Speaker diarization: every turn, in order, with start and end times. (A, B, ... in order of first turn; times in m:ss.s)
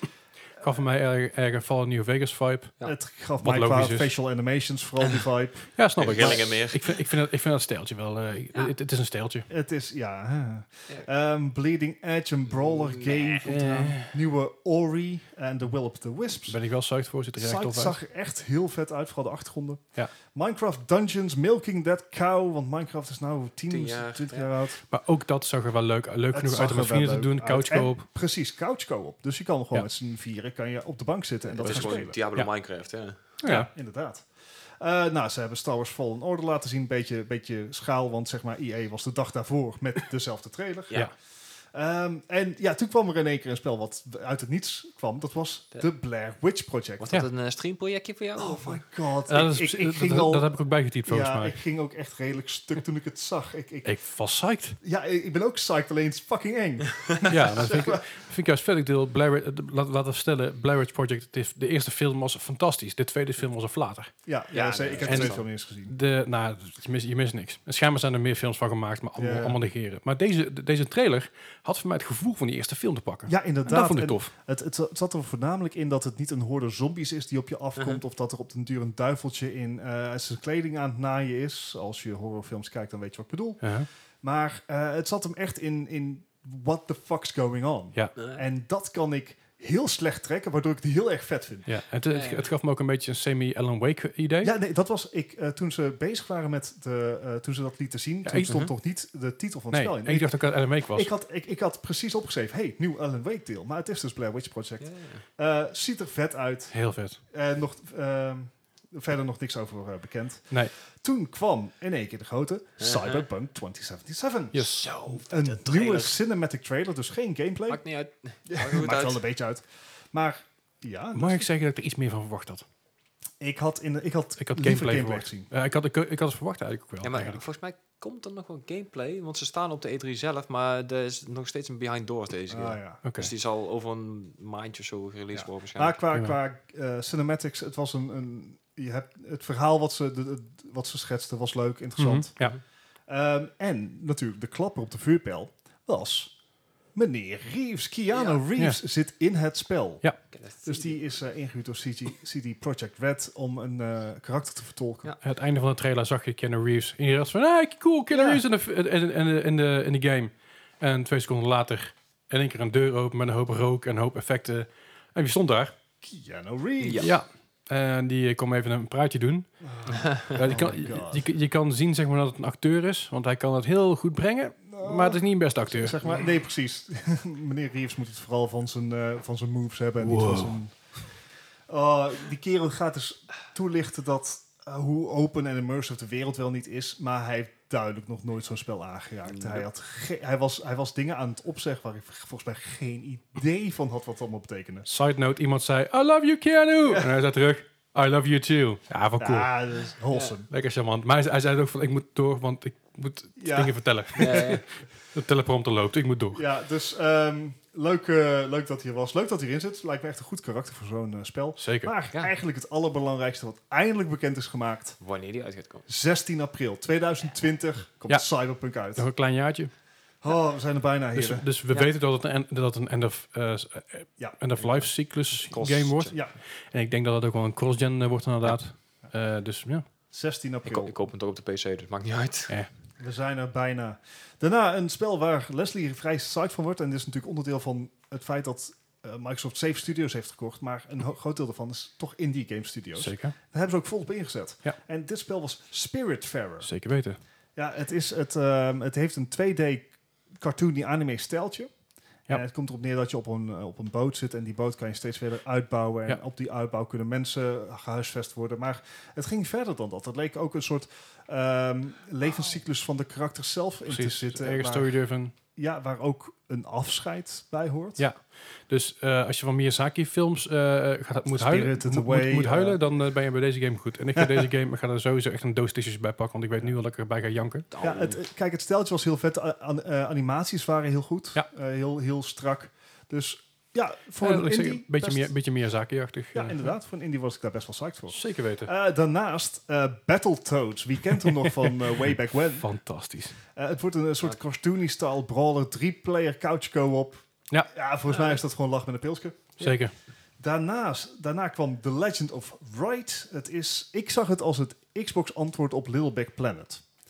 0:00.6-0:02.7 A
0:02.8-0:06.5 B
0:03.4-0:04.1 A
0:05.8-0:09.5 A
0:06.0-0:07.0 C
0:09.5-0:16.6 B
0:12.5-0:13.5 C
0:13.4-0:14.1 A
0:16.5-0:18.0 A
0:17.4-0:24.8 B
0:23.7-0:24.5 C
0:24.9-0:28.1 A
0:26.3-0:32.2 B
0:31.5-0:33.4 C
0:31.7-0:32.5 A
0:33.4-0:33.7 A
0:33.4-0:34.3 B
0:34.8-0:41.0 B
0:41.7-0:47.1 B
0:47.0-0:48.8 C
0:48.4-0:54.0 B
0:49.3-0:51.6 A
0:53.8-0:54.8 A
0:54.8-0:58.0 B
0:57.3-1:04.1 A
1:04.3-1:05.9 B
1:04.5-1:05.4 C
1:05.0-1:14.3 A
1:09.2-1:09.6 B
1:13.3-1:23.7 B
1:17.8-1:18.0 C
1:23.6-1:23.9 A
1:24.2-1:31.7 B
1:28.2-1:28.4 C
1:31.7-1:34.5 A
1:32.1-1:32.5 C
1:34.4-1:46.7 B
1:38.2-1:38.6 A
1:39.7-1:41.1 A
1:44.8-1:45.2 C
1:46.7-1:47.2 A
1:47.3-1:57.8 B
1:52.8-1:53.3 C
1:54.5-1:54.9 A
1:54.6-1:56.2 C
1:57.7-1:59.2 C
1:58.5-2:01.5 B
2:01.1-2:02.6 A
2:03.4-2:05.5 B
2:04.4-2:07.4 A
2:07.0-2:16.0 C
2:12.5-2:13.0 B
2:13.0-2:13.3 A
2:15.4-2:22.4 B
2:22.0-2:22.6 A
2:23.1-2:26.3 B
2:26.9-2:30.0 B
2:28.1-2:28.4 C
2:30.3-2:31.0 C
2:30.6-2:35.1 B
2:35.2-2:45.7 A
2:38.1-2:38.4 B
2:46.0-2:47.2 B
2:46.8-2:47.1 C
2:47.0-2:56.0 A
2:49.6-2:51.2 B
2:54.7-3:00.7 B
3:00.0-3:00.6 A
3:01.7-3:14.9 B
3:09.3-3:09.6 C
3:14.9-3:19.5 A
3:16.8-3:17.1 B
3:19.2-3:20.5 B
3:20.5-3:26.4 A
3:23.4-3:24.6 B
3:24.2-3:24.6 C
3:26.3-3:35.0 B
3:31.6-3:31.9 A
3:35.0-3:35.8 C
3:35.9-3:39.1 B
3:38.9-3:39.7 A
3:40.2-3:41.4 B
3:41.1-3:49.8 A
3:45.3-3:46.2 C
3:50.1-3:50.9 B
3:50.6-3:52.6 C
3:53.0-4:06.7 B
4:03.0-4:03.4 A
4:06.6-4:07.2 A
4:07.6-4:11.7 B
4:12.3-4:25.0 B
4:23.9-4:25.3 A
4:25.6-4:28.0 B
4:28.0-4:37.7 A
4:31.3-4:32.8 B
4:34.2-4:34.5 B
4:37.7-4:38.2 C
4:37.8-4:45.3 B
4:44.2-4:46.7 A
4:46.3-4:52.7 B
4:48.1-4:48.7 A
4:51.4-4:51.7 A
4:52.6-4:53.4 A
4:53.5-4:59.6 B
4:58.1-4:58.4 C
4:59.6-4:59.9 A
5:00.4-5:06.8 B